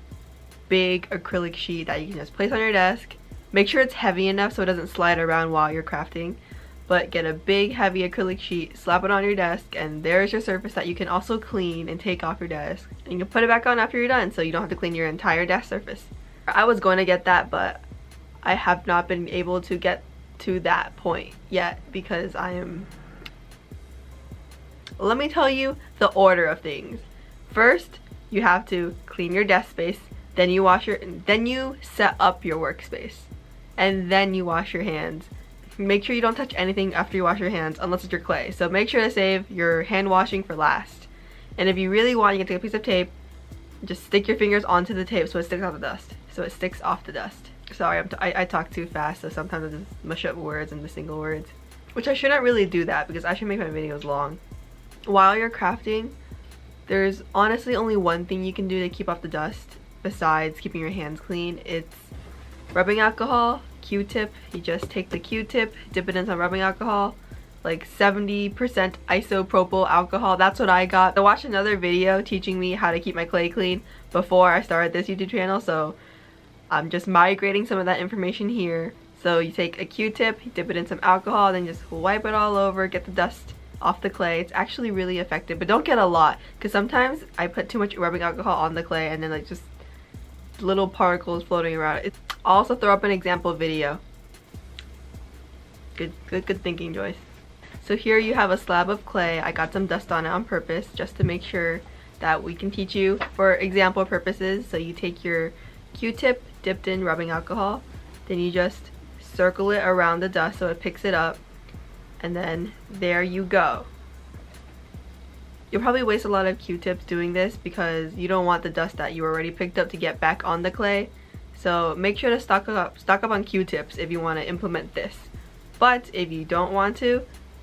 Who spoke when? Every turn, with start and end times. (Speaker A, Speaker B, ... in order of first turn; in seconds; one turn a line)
Speaker A: 0.7-17.8
Speaker A: 18.4-22.9
Speaker A: 25.0-43.1
Speaker A: 43.8-54.4
Speaker A: 55.1-56.1
Speaker A: 56.9-62.1
Speaker A: 62.7-76.0
Speaker A: 76.7-89.7
Speaker A: 90.6-94.0
Speaker A: 96.0-97.2
Speaker A: 97.8-111.4
Speaker A: 112.2-113.9
Speaker A: 115.7-127.3